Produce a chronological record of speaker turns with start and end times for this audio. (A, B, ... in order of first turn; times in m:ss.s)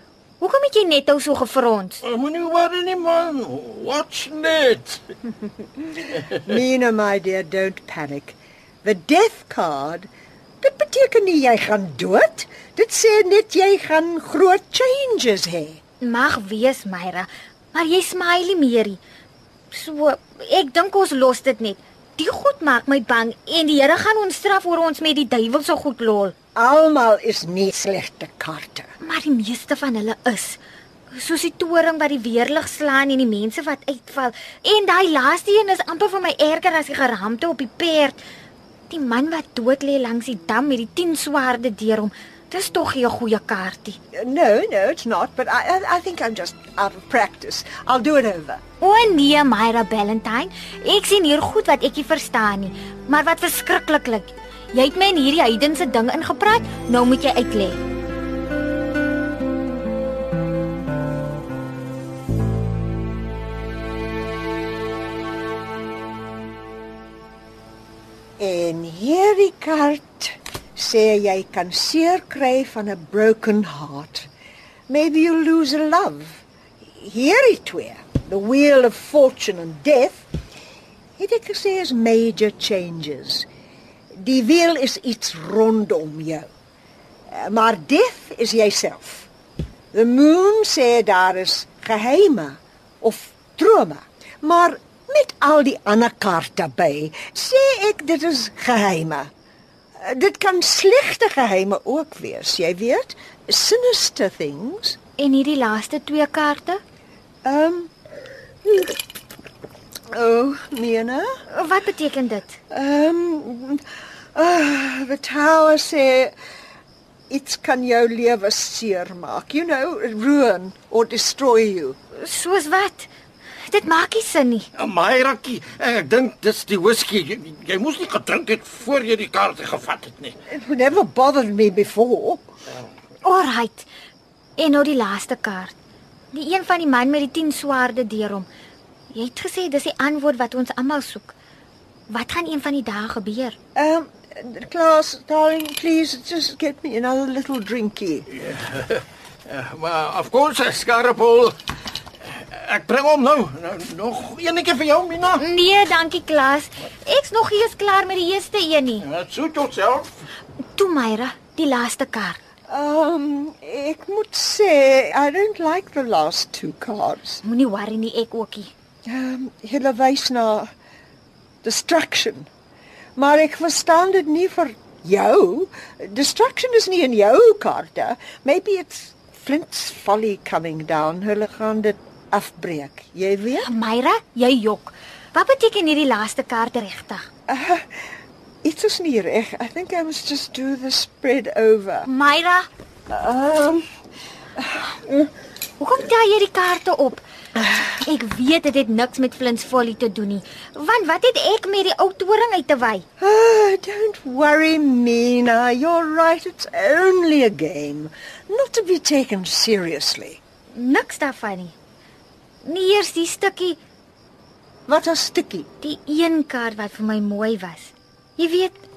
0:00.4-0:02.0 A
0:02.0-0:05.0 B
0:06.4-0:10.1 C
0:10.6-0:15.8 C
0:16.0-0:19.0 A
0:19.7-0:26.3 A
0:26.5-0:28.9 C
0:29.0-0:30.6 A
0:31.1-0:38.2 A
0:38.9-0:44.0 A
0:44.1-0:48.6 C
0:48.8-0:57.8 A
1:08.4-1:14.3 C
1:14.9-1:20.3 C
1:21.2-1:23.5 C
1:24.2-1:26.5 C
1:27.3-1:29.3 C
1:29.9-1:39.3 C
1:40.0-1:45.0 C
1:45.2-1:46.8 A
1:47.4-1:47.9 C
1:48.6-1:48.9 C
1:50.1-1:51.3 C
1:51.5-1:52.6 A
1:52.7-1:53.8 C
1:54.3-1:56.3 C
1:57.3-2:02.0 C
2:02.2-2:03.1 A
2:03.6-2:04.7 A
2:04.8-2:10.3 B
2:10.5-2:12.4 C
2:13.2-2:13.9 A
2:14.6-2:15.7 A
2:16.3-2:18.5 A
2:19.1-2:21.3 A
2:22.1-2:23.6 A
2:23.7-2:28.3 C
2:28.4-2:31.6 B
2:32.3-2:35.4 B
2:35.4-2:39.0 A
2:39.0-2:40.1 B
2:40.7-2:42.4 A
2:42.7-2:47.4 C
2:47.4-2:48.7 A
2:49.0-2:50.7 C
2:51.6-2:52.5 C
2:53.2-3:03.7 C
3:03.6-3:07.2 A
3:07.5-3:08.0 C
3:08.6-3:12.1 C
3:12.0-3:12.6 A
3:13.1-3:13.8 C
3:14.6-3:15.2 C
3:15.8-3:23.0 A
3:23.2-3:30.4 C
3:30.7-3:31.7 A
3:32.6-3:33.8 A
3:34.9-3:35.7 C
3:35.8-3:38.8 A